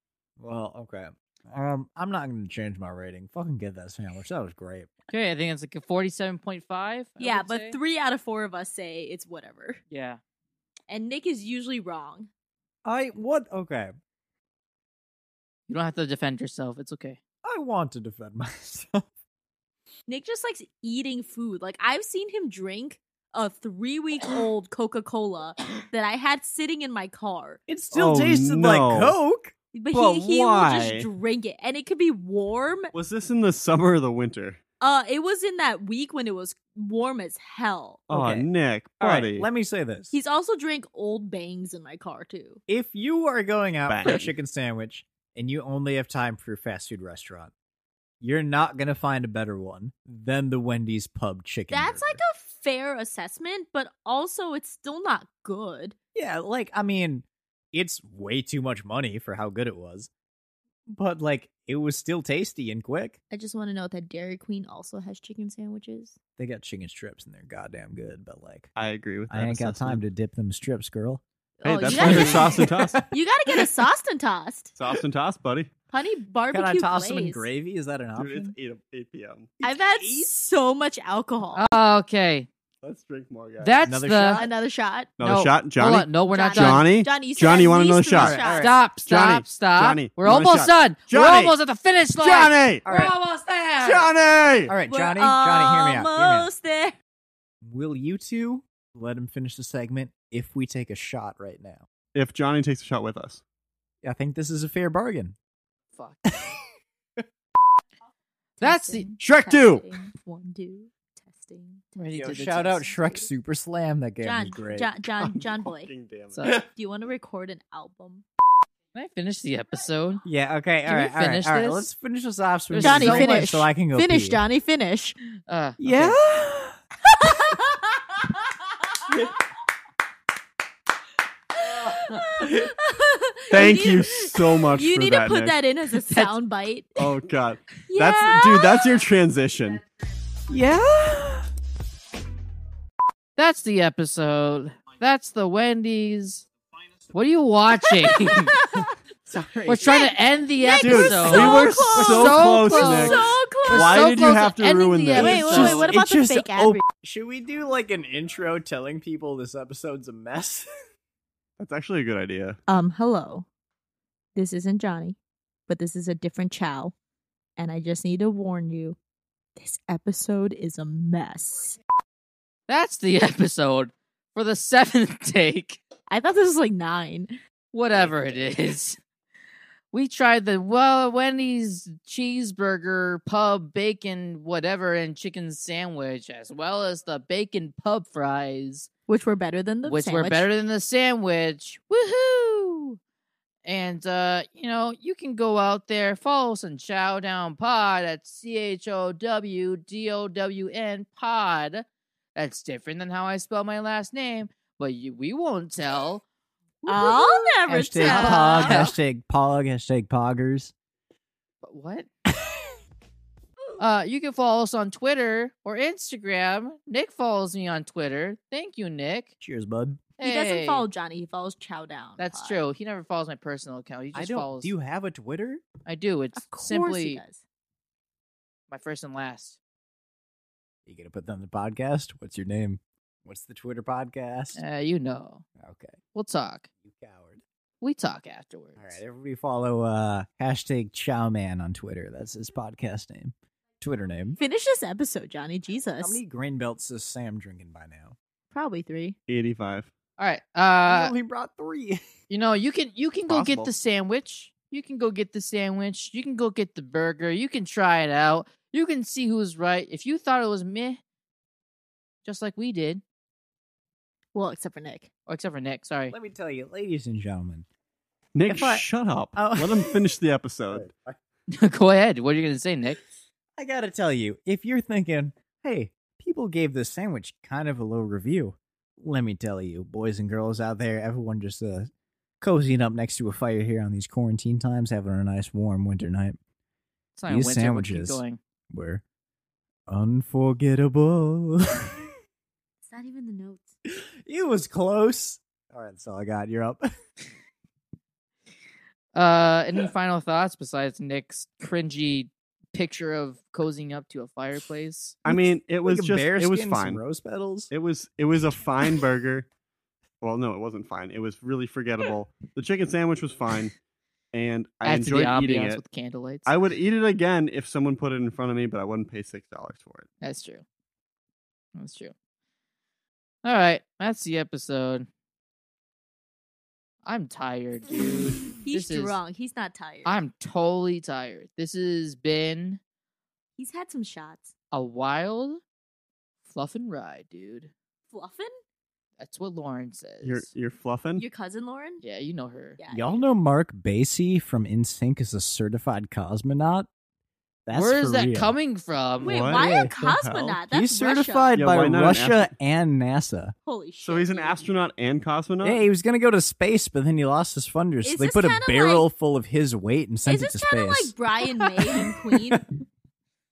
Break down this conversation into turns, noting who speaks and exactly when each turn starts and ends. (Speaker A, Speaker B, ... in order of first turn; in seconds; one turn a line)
Speaker A: 0.4-4.9
Speaker B: 5.1-7.8
Speaker C: 7.2-9.8
Speaker B: 9.9-10.2
Speaker C: 10.9-12.3
Speaker A: 12.8-13.9
Speaker B: 15.7-17.2
Speaker A: 17.4-19.1
Speaker C: 20.1-27.6
Speaker A: 27.7-29.5
Speaker D: 27.9-29.1
Speaker C: 29.7-32.9
Speaker D: 29.9-31.1
Speaker D: 32.9-34.6
Speaker C: 34.8-38.1
Speaker D: 38.1-39.5
Speaker A: 38.1-38.5
Speaker A: 39.0-40.1
Speaker C: 40.1-42.6
Speaker A: 42.7-47.5
Speaker D: 43.9-44.3
Speaker A: 48.2-52.2
Speaker C: 51.7-56.0
Speaker A: 56.1-60.1
Speaker A: 60.9-63.2
Speaker C: 63.3-66.2
Speaker A: 66.4-68.7
Speaker D: 68.8-70.0
Speaker A: 69.3-71.2
Speaker C: 71.6-74.7
Speaker D: 71.6-73.0
Speaker A: 71.9-73.1
Speaker D: 74.8-75.7
Speaker C: 75.9-77.5
Speaker A: 76.5-78.5
Speaker D: 78.2-79.5
Speaker C: 79.6-81.7
Speaker A: 79.7-80.3
Speaker B: 81.5-82.5
Speaker D: 82.8-83.8
Speaker B: 83.6-84.5
Speaker A: 83.8-84.5
Speaker C: 84.2-85.1
Speaker D: 85.2-88.4
Speaker B: 85.2-86.9
Speaker C: 86.3-88.7
Speaker A: 88.2-88.8
Speaker B: 88.6-94.1
Speaker D: 89.0-91.6
Speaker D: 92.2-92.9
Speaker A: 92.8-93.2
Speaker D: 93.8-94.7
Speaker A: 94.7-96.5
Speaker C: 94.9-97.0
Speaker A: 97.6-101.8
Speaker D: 102.1-103.4
Speaker A: 104.0-105.3
Speaker B: 106.0-106.2
Speaker A: 106.3-106.7
Speaker B: 108.6-109.1
Speaker C: 108.6-113.2
Speaker A: 109.3-109.9
Speaker B: 112.0-113.0
Speaker A: 112.2-114.9
Speaker C: 114.2-115.9
Speaker D: 115.2-116.4
Speaker B: 116.3-116.6
Speaker C: 116.5-118.2
Speaker B: 118.9-120.2
Speaker A: 120.2-124.4
Speaker B: 120.8-121.9
Speaker B: 122.7-123.4
Speaker C: 122.8-125.2
Speaker B: 125.5-126.2
Speaker A: 125.8-126.8
Speaker C: 127.0-128.2
Speaker C: 131.6-137.1
Speaker D: 133.5-135.6
Speaker B: 136.1-136.4
Speaker D: 137.0-139.8
Speaker C: 137.9-138.9
Speaker A: 140.5-141.5
Speaker B: 143.4-146.5
Speaker B: 147.1-148.6
Speaker C: 148.1-148.9
Speaker A: 149.3-149.9
Speaker B: 149.7-155.9
Speaker C: 149.8-154.1
Speaker D: 150.8-155.9
Speaker C: 155.2-156.8
Speaker A: 155.4-160.7
Speaker D: 161.6-162.6
Speaker C: 162.7-163.5
Speaker C: 164.3-166.9
Speaker C: 167.6-169.0
Speaker C: 169.6-171.8
Speaker B: 172.7-175.8
Speaker C: 176.1-177.4
Speaker B: 177.7-179.0
Speaker B: 179.9-188.9
Speaker C: 189.1-190.5
Speaker B: 189.8-193.0
Speaker B: 193.6-206.2
Speaker B: 206.8-209.0
Speaker C: 206.9-208.9
Speaker A: 207.7-210.7
Speaker B: 211.6-212.1
Speaker B: 213.8-219.3
Speaker A: 219.4-220.0
Speaker B: 220.2-220.9
Speaker C: 220.2-222.6
Speaker B: 222.2-224.7
Speaker A: 224.1-225.6
Speaker B: 225.9-227.2
Speaker C: 226.4-227.4
Speaker B: 228.7-229.6
Speaker A: 230.9-234.6
Speaker B: 234.6-235.4
Speaker A: 235.6-236.0
Speaker B: 236.2-236.7
Speaker A: 236.8-237.4
Speaker B: 237.8-239.0
Speaker A: 238.8-244.4
Speaker C: 244.4-246.2
Speaker A: 246.0-248.2
Speaker C: 248.5-249.2
Speaker D: 249.3-249.9
Speaker B: 250.2-251.1
Speaker A: 250.8-252.0
Speaker B: 252.3-261.0
Speaker D: 253.3-253.7
Speaker B: 262.2-263.0
Speaker C: 264.3-265.1
Speaker B: 265.3-266.1
Speaker A: 266.1-267.6
Speaker D: 268.4-270.9
Speaker A: 268.5-270.0
Speaker A: 270.7-271.2
Speaker B: 271.5-273.0
Speaker A: 273.6-286.4
Speaker B: 287.2-288.4
Speaker A: 287.3-289.0
Speaker A: 289.9-292.0
Speaker C: 292.9-293.7
Speaker A: 293.9-296.9
Speaker B: 299.1-305.2
Speaker D: 305.3-307.0
Speaker A: 305.3-307.7
Speaker D: 307.7-309.5
Speaker D: 310.2-313.8
Speaker D: 314.3-315.8
Speaker B: 314.8-316.5
Speaker D: 316.5-320.1
Speaker B: 320.2-320.6
Speaker B: 321.8-322.1
Speaker B: 323.4-325.1
Speaker B: 327.1-329.2
Speaker C: 328.6-330.2
Speaker B: 330.1-332.8
Speaker C: 333.6-334.5
Speaker B: 334.7-335.6
Speaker B: 336.4-337.7
Speaker C: 338.1-338.5
Speaker B: 339.2-340.5
Speaker D: 340.2-341.2
Speaker C: 341.2-342.0
Speaker B: 342.0-342.8
Speaker C: 342.8-343.3
Speaker A: 342.9-346.9
Speaker A: 347.7-348.5
Speaker B: 347.7-349.6
Speaker C: 349.2-351.6
Speaker D: 349.2-350.6
Speaker A: 349.6-349.9
Speaker A: 350.7-353.6
Speaker D: 351.5-352.5
Speaker C: 353.7-354.7
Speaker D: 354.0-355.8
Speaker A: 355.6-362.6
Speaker C: 358.0-359.1
Speaker C: 360.2-362.6